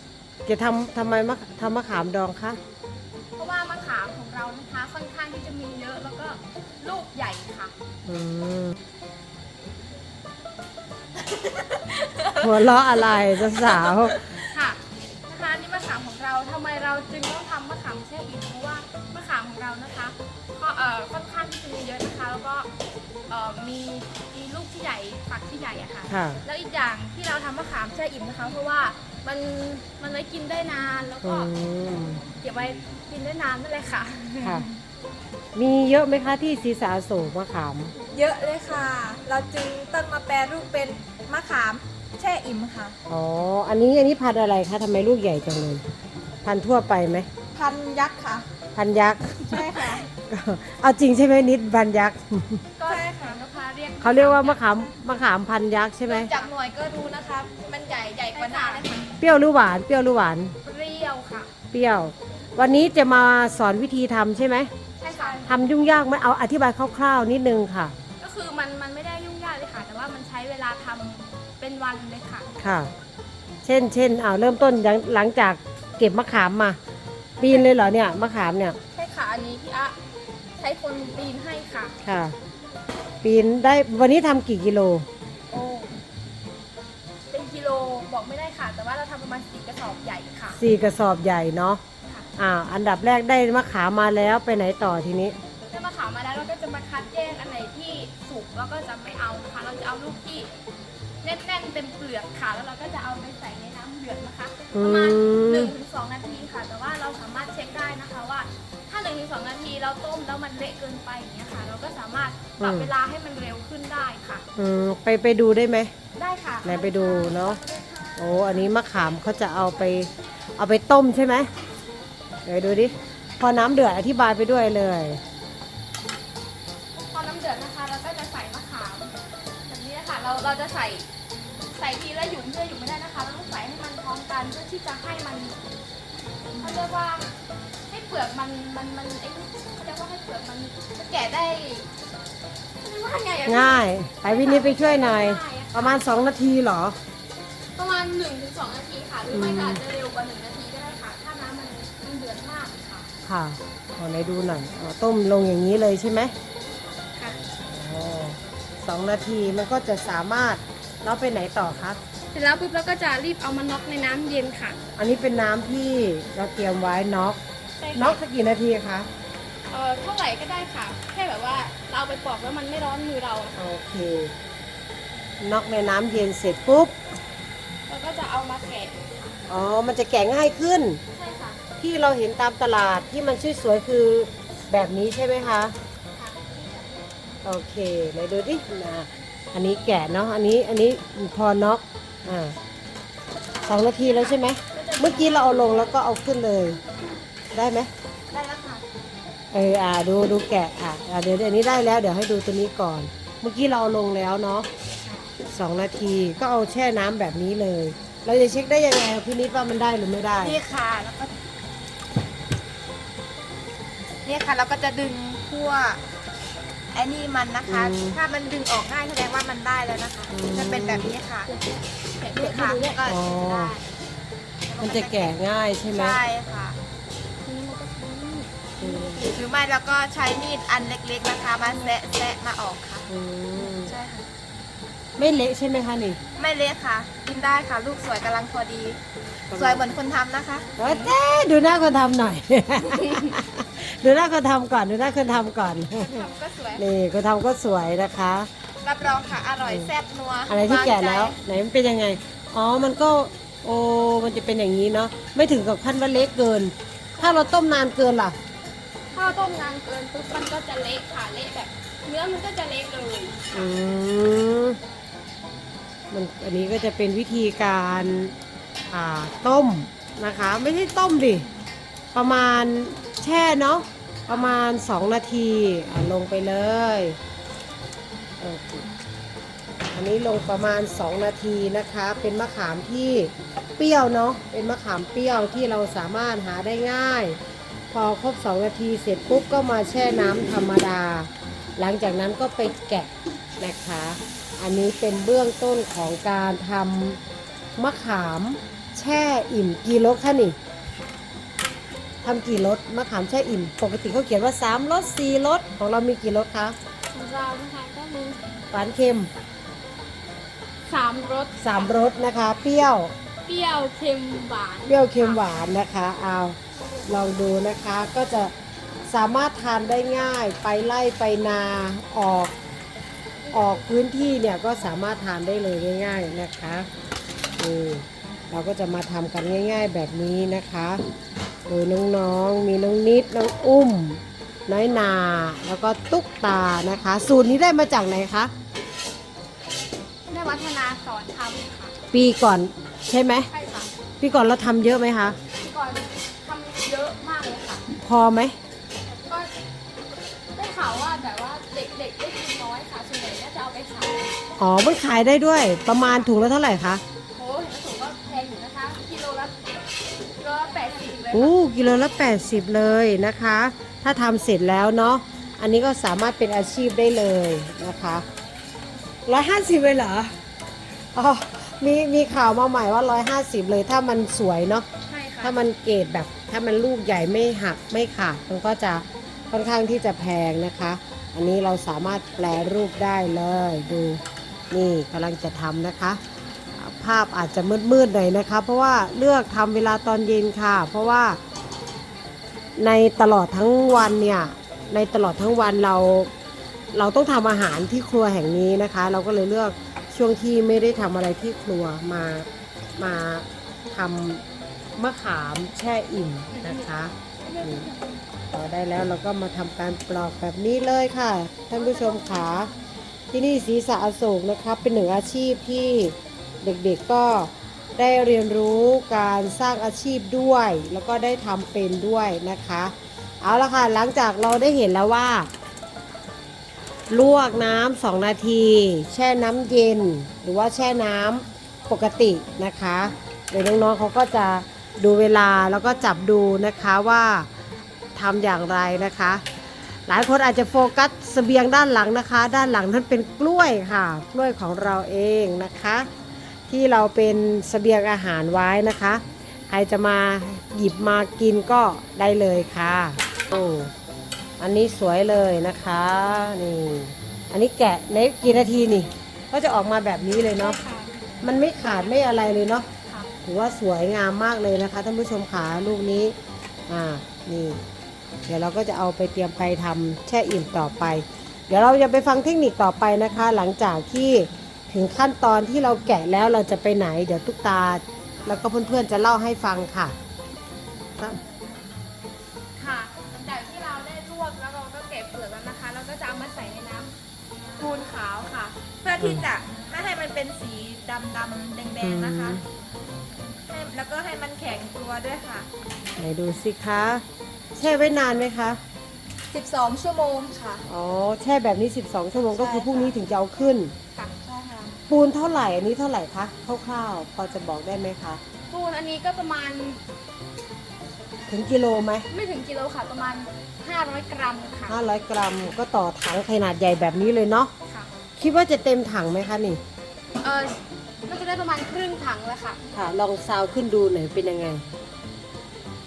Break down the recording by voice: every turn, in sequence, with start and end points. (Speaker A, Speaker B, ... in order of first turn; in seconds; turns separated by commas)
Speaker A: 0.4-2.6, Speaker B: 3.4-7.7, Speaker A: 8.1-8.8, Speaker B: 12.1-12.4, Speaker A: 12.3-14.2, Speaker B: 14.4-22.7, Speaker B: 23.3-31.5, Speaker A: 26.1-26.4, Speaker A: 31.2-32.2, Speaker B: 32.4-34.7, Speaker A: 35.5-37.9, Speaker C: 38.0-43.0, Speaker A: 43.1-45.8, Speaker A: 46.4-47.3, Speaker C: 47.5-48.5, Speaker A: 48.7-52.6, Speaker C: 49.4-50.1, Speaker B: 52.8-54.6, Speaker C: 52.9-53.4, Speaker A: 54.0-56.4, Speaker C: 56.1-59.1, Speaker B: 58.3-59.0, Speaker A: 59.2-60.5, Speaker B: 60.6-61.5, Speaker A: 61.7-64.7, Speaker B: 65.0-65.5, Speaker C: 65.1-65.4, Speaker A: 65.4-67.9, Speaker B: 68.2-72.5, Speaker A: 72.6-72.9, Speaker A: 73.6-76.8, Speaker A: 77.4-78.8, Speaker B: 77.4-77.7, Speaker B: 78.9-79.9, Speaker B: 80.6-81.9, Speaker A: 82.0-82.3, Speaker A: 83.2-85.1, Speaker B: 85.5-85.9, Speaker B: 87.3-90.6, Speaker A: 90.6-91.8, Speaker A: 92.4-95.4, Speaker B: 95.7-100.5, Speaker B: 101.2-114.4, Speaker A: 104.7-105.7, Speaker A: 112.6-112.9, Speaker A: 114.5-115.9, Speaker B: 116.2-118.5, Speaker A: 116.6-117.6, Speaker A: 118.2-121.5, Speaker A: 122.4-125.2, Speaker B: 127.1-129.1, Speaker B: 129.7-131.1, Speaker B: 131.7-135.6, Speaker B: 136.6-137.3, Speaker B: 137.9-141.8, Speaker B: 142.8-146.0, Speaker A: 143.4-147.0, Speaker B: 147.8-153.1, Speaker A: 149.3-149.8, Speaker A: 153.2-156.3, Speaker A: 157.6-162.0, Speaker B: 162.3-164.8, Speaker A: 165.0-167.4, Speaker B: 167.8-168.2, Speaker A: 167.9-169.1, Speaker B: 169.7-173.6, Speaker A: 173.6-174.3, Speaker A: 175.4-177.0, Speaker B: 177.9-179.0, Speaker A: 179.5-181.0, Speaker B: 181.1-181.6, Speaker A: 181.8-185.7, Speaker B: 186.2-186.9, Speaker A: 187.4-192.6, Speaker A: 193.6-196.8, Speaker B: 193.9-196.0, Speaker A: 197.5-197.9, Speaker C: 198.3-198.8, Speaker A: 199.5-204.7, Speaker B: 205.0-205.3, Speaker A: 205.4-210.6, Speaker C: 210.4-211.3, Speaker C: 214.2-216.0, Speaker C: 216.9-221.5, Speaker A: 217.7-218.2, Speaker A: 220.3-221.1, Speaker B: 221.5-223.0, Speaker C: 222.3-223.9, Speaker A: 223.0-223.7, Speaker C: 224.7-225.3, Speaker A: 224.8-226.2, Speaker C: 225.9-226.8, Speaker B: 227.4-229.2, Speaker A: 228.8-229.3, Speaker C: 229.2-233.1, Speaker A: 233.1-233.9, Speaker C: 233.7-234.2, Speaker A: 235.2-236.2, Speaker C: 236.3-239.0, Speaker A: 239.5-239.8, Speaker C: 239.5-240.8, Speaker A: 240.8-248.5, Speaker C: 246.0-246.8, Speaker C: 248.8-251.3, Speaker A: 250.5-258.4, Speaker B: 259.1-263.7, Speaker A: 263.5-264.8, Speaker A: 266.1-268.3, Speaker A: 268.9-271.5, Speaker A: 272.1-277.2, Speaker B: 274.3-274.5, Speaker A: 278.4-278.9, Speaker A: 279.9-287.4, Speaker A: 287.9-297.2, Speaker A: 297.8-300.6, Speaker A: 302.2-306.8, Speaker B: 307.1-308.4, Speaker A: 308.7-309.3, Speaker B: 310.9-311.9, Speaker A: 311.6-313.1, Speaker B: 313.4-315.4, Speaker A: 314.9-318.5, Speaker B: 316.8-317.1, Speaker A: 319.1-322.6, Speaker B: 323.4-324.0, Speaker A: 323.5-326.9, Speaker A: 327.6-331.0, Speaker A: 331.7-338.5, Speaker B: 340.3-341.9, Speaker A: 342.1-343.5, Speaker B: 343.5-343.9, Speaker A: 344.2-345.4, Speaker B: 345.6-347.8, Speaker A: 348.0-348.6, Speaker B: 349.1-349.5, Speaker B: 350.5-354.3, Speaker A: 354.6-357.0, Speaker B: 356.0-356.3, Speaker B: 357.3-359.6, Speaker B: 360.4-361.5, Speaker A: 361.3-368.2, Speaker A: 369.2-370.3, Speaker A: 371.1-374.9, Speaker B: 375.1-375.6, Speaker A: 375.4-386.2, Speaker A: 386.7-391.4, Speaker A: 392.8-396.3, Speaker A: 396.9-404.4, Speaker A: 404.9-407.9, Speaker B: 407.4-408.1, Speaker A: 408.5-412.7, Speaker B: 411.8-412.8, Speaker A: 413.3-425.5, Speaker A: 427.1-437.5, Speaker A: 438.1-439.4, Speaker A: 440.1-446.1, Speaker A: 446.7-453.9, Speaker A: 454.6-460.8, Speaker B: 460.6-461.3, Speaker A: 461.4-462.9, Speaker A: 463.4-466.4, Speaker A: 466.9-467.8, Speaker A: 468.4-480.1, Speaker B: 482.8-487.1, Speaker C: 487.8-492.6, Speaker A: 489.2-489.5, Speaker A: 492.0-492.6, Speaker C: 493.7-495.7, Speaker A: 496.2-497.2, Speaker A: 497.8-498.8, Speaker B: 499.5-500.8, Speaker A: 500.9-503.9, Speaker C: 502.5-503.1, Speaker C: 504.3-504.9, Speaker A: 505.1-508.4, Speaker B: 508.7-510.0, Speaker A: 511.5-512.3, Speaker B: 512.3-515.0, Speaker A: 514.9-517.7, Speaker A: 518.4-519.8, Speaker B: 520.4-522.8, Speaker A: 522.9-524.8